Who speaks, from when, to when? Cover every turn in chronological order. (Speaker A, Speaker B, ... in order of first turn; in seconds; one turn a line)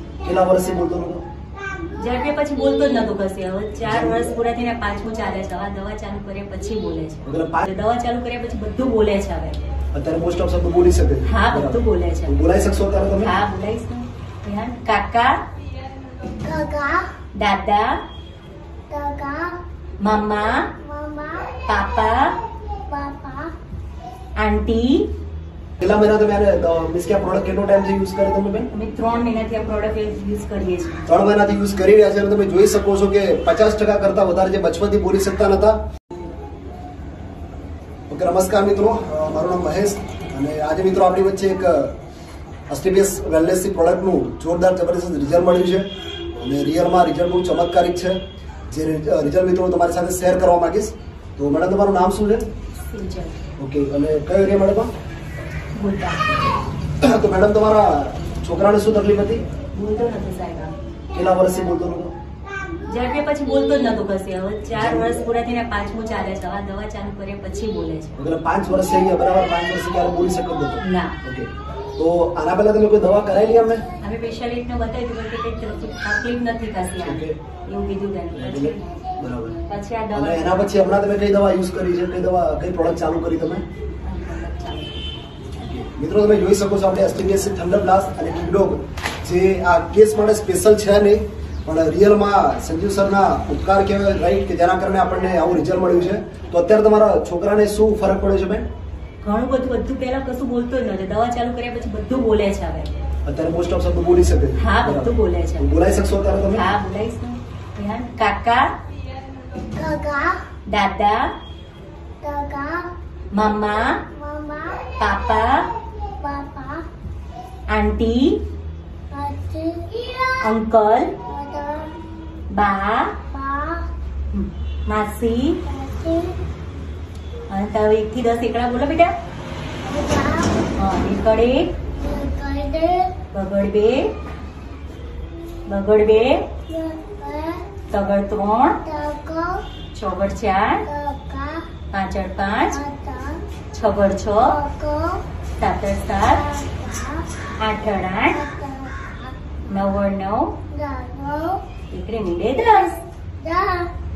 Speaker A: 0.2-1.2
Speaker B: 2.0-9.6
Speaker A: 3.8-4.3
Speaker A: 7.2-7.7
Speaker A: 9.9-13.3
Speaker B: 11.2-12.4
Speaker B: 13.2-15.4
Speaker C: 16.4-17.1
Speaker B: 17.3-18.0
Speaker C: 18.9-19.6
Speaker B: 20.0-20.7
Speaker C: 20.7-21.6
Speaker B: 21.6-22.4
Speaker C: 22.7-23.5
Speaker B: 24.4-25.1
Speaker A: 25.8-28.7
Speaker B: 28.7-31.1
Speaker A: 31.1-35.8
Speaker A: 38.1-41.9
Speaker A: 42.7-48.2
Speaker A: 48.7-52.5
Speaker B: 52.9-53.4
Speaker A: 53.6-54.9
Speaker B: 55.7-56.3
Speaker A: 57.0-59.4
Speaker B: 59.7-60.7
Speaker A: 61.1-62.1
Speaker B: 62.9-68.1
Speaker A: 64.7-65.3
Speaker A: 68.2-73.8
Speaker B: 70.8-71.2
Speaker B: 74.0-78.9
Speaker A: 77.0-77.4
Speaker A: 78.3-79.6
Speaker B: 79.7-80.8
Speaker A: 80.1-83.6
Speaker B: 84.0-85.0
Speaker A: 85.6-98.7
Speaker B: 99.2-102.9
Speaker A: 103.2-106.6
Speaker B: 104.5-105.7
Speaker B: 106.5-108.7
Speaker C: 109.7-110.4
Speaker B: 110.7-111.3
Speaker C: 112.2-112.9
Speaker B: 113.3-114.0
Speaker C: 114.0-115.0
Speaker B: 115.0-115.7
Speaker C: 115.8-116.8
Speaker B: 117.7-118.4
Speaker C: 119.1-120.4
Speaker B: 120.4-121.1
Speaker C: 121.2-121.9
Speaker B: 122.5-123.2
Speaker C: 123.3-123.9
Speaker B: 124.3-125.6
Speaker C: 125.7-126.4
Speaker B: 127.5-129.1
Speaker C: 129.8-130.7
Speaker B: 130.7-131.8
Speaker C: 131.9-133.2
Speaker B: 133.3-134.1
Speaker B: 135.7-136.5
Speaker C: 136.7-137.7
Speaker B: 137.9-138.8
Speaker C: 138.8-139.6
Speaker B: 139.9-140.9
Speaker C: 140.8-141.7
Speaker B: 141.9-142.8
Speaker C: 142.7-143.4
Speaker B: 143.7-144.6
Speaker C: 144.4-145.2
Speaker B: 145.6-146.5
Speaker C: 146.2-147.2
Speaker B: 147.6-148.4
Speaker C: 148.3-149.3
Speaker B: 149.7-150.6
Speaker C: 150.7-151.6
Speaker B: 151.9-153.0
Speaker C: 153.4-153.9